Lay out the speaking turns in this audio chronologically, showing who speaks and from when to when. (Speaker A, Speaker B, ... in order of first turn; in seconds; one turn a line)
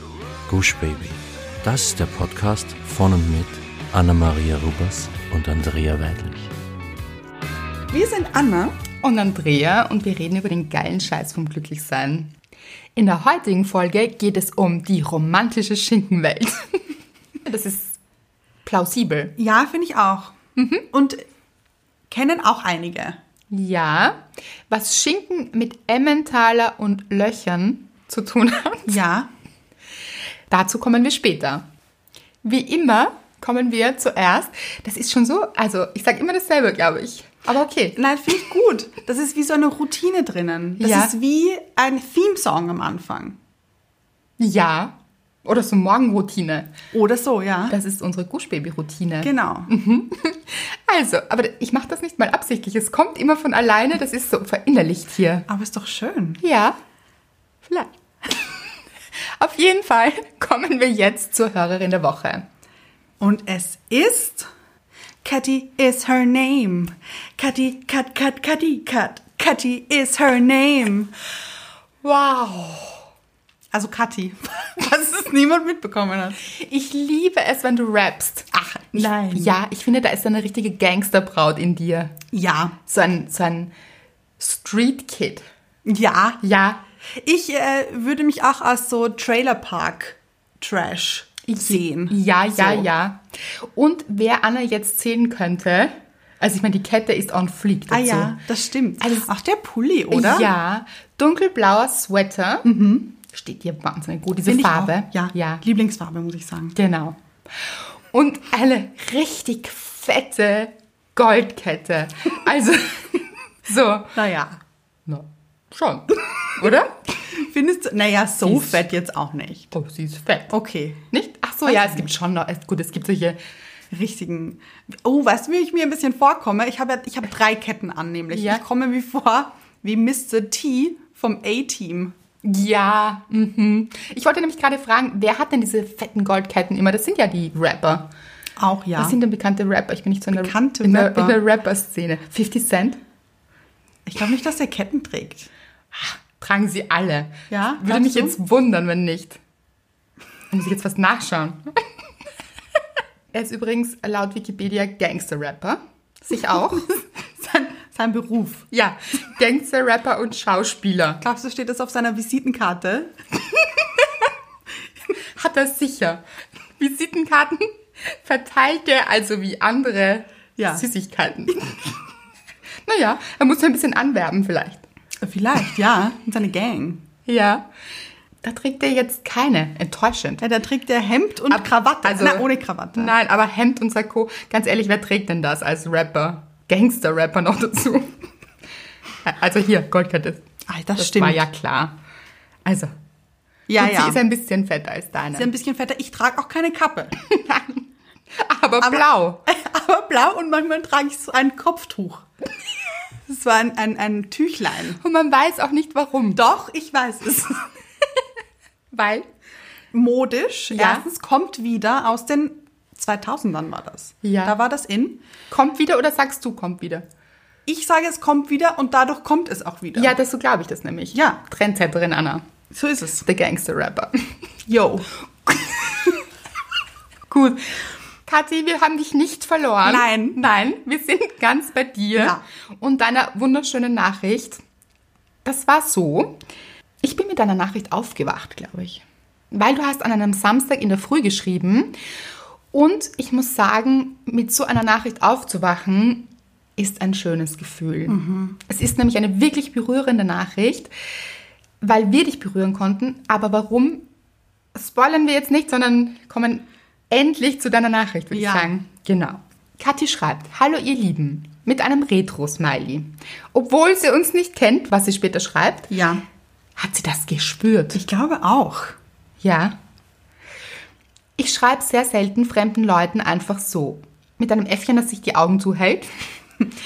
Speaker A: 0.5-6.5
Speaker B: 7.9-8.8
Speaker C: 9.0-12.3
Speaker C: 12.9-16.9
Speaker C: 17.4-18.0
Speaker C: 18.6-19.4
Speaker B: 19.4-20.3
Speaker C: 20.6-20.9
Speaker B: 20.9-21.2
Speaker B: 22.1-23.2
Speaker C: 23.5-29.0
Speaker B: 28.9-29.3
Speaker C: 30.5-31.6
Speaker C: 32.4-38.0
Speaker B: 38.0-43.4
Speaker C: 40.8-41.1
Speaker C: 44.4-46.7
Speaker B: 46.9-47.8
Speaker C: 47.7-55.5
Speaker B: 49.2-49.7
Speaker B: 55.5-56.4
Speaker C: 56.4-56.8
Speaker C: 57.6-58.5
Speaker C: 59.4-62.4
Speaker B: 63.2-64.5
Speaker B: 65.2-71.1
Speaker C: 72.0-73.0
Speaker B: 73.7-76.4
Speaker C: 76.4-82.2
Speaker B: 78.9-79.6
Speaker B: 82.3-82.8
Speaker C: 82.8-83.7
Speaker C: 84.4-85.5
Speaker B: 85.8-86.4
Speaker C: 86.4-86.8
Speaker B: 87.1-92.9
Speaker C: 91.5-98.4
Speaker B: 97.9-100.5
Speaker C: 99.0-99.3
Speaker C: 100.1-105.6
Speaker B: 102.6-103.1
Speaker B: 104.4-106.8
Speaker C: 106.7-107.2
Speaker C: 108.1-114.2
Speaker B: 114.1-114.6
Speaker C: 115.1-117.0
Speaker B: 117.2-119.7
Speaker C: 118.4-118.8
Speaker C: 119.7-120.5
Speaker B: 120.5-121.0
Speaker C: 121.1-123.4
Speaker B: 121.7-122.1
Speaker B: 123.9-132.1
Speaker C: 128.3-128.6
Speaker C: 132.4-138.1
Speaker B: 138.6-139.2
Speaker C: 139.0-143.0
Speaker B: 140.3-141.4
Speaker B: 144.1-145.5
Speaker C: 145.9-149.4
Speaker B: 147.5-148.4
Speaker C: 150.5-151.7
Speaker C: 153.3-156.9
Speaker B: 156.5-158.7
Speaker C: 158.7-161.2
Speaker B: 161.2-163.1
Speaker C: 165.3-166.2
Speaker C: 166.8-171.9
Speaker B: 170.6-170.8
Speaker C: 172.8-174.8
Speaker B: 175.2-177.0
Speaker C: 177.2-177.7
Speaker C: 178.4-180.4
Speaker B: 180.4-183.1
Speaker C: 181.5-188.2
Speaker C: 189.2-190.4
Speaker B: 190.7-191.4
Speaker C: 191.0-191.9
Speaker C: 192.6-192.9
Speaker B: 193.7-194.2
Speaker C: 193.7-195.5
Speaker B: 195.3-197.2
Speaker C: 197.3-197.8
Speaker C: 198.3-199.4
Speaker B: 198.8-202.3
Speaker B: 203.3-205.0
Speaker C: 205.0-206.4
Speaker B: 206.3-207.7
Speaker C: 208.9-209.2
Speaker B: 209.9-215.2
Speaker C: 210.7-211.1
Speaker C: 214.2-214.5
Speaker C: 215.5-217.1
Speaker B: 217.7-220.2
Speaker C: 219.9-222.4
Speaker B: 221.1-221.4
Speaker B: 222.7-223.2
Speaker C: 223.2-224.3
Speaker B: 224.7-225.1
Speaker C: 227.3-227.7
Speaker C: 228.3-234.6
Speaker B: 229.8-230.4
Speaker B: 232.2-232.4
Speaker C: 235.4-236.4
Speaker C: 237.0-241.9
Speaker C: 242.7-250.9
Speaker B: 248.1-248.6
Speaker C: 251.8-254.1
Speaker C: 254.7-265.9
Speaker B: 258.3-258.7
Speaker B: 265.9-266.2
Speaker C: 266.8-268.0
Speaker B: 267.9-268.9
Speaker C: 269.4-269.8
Speaker C: 271.4-276.2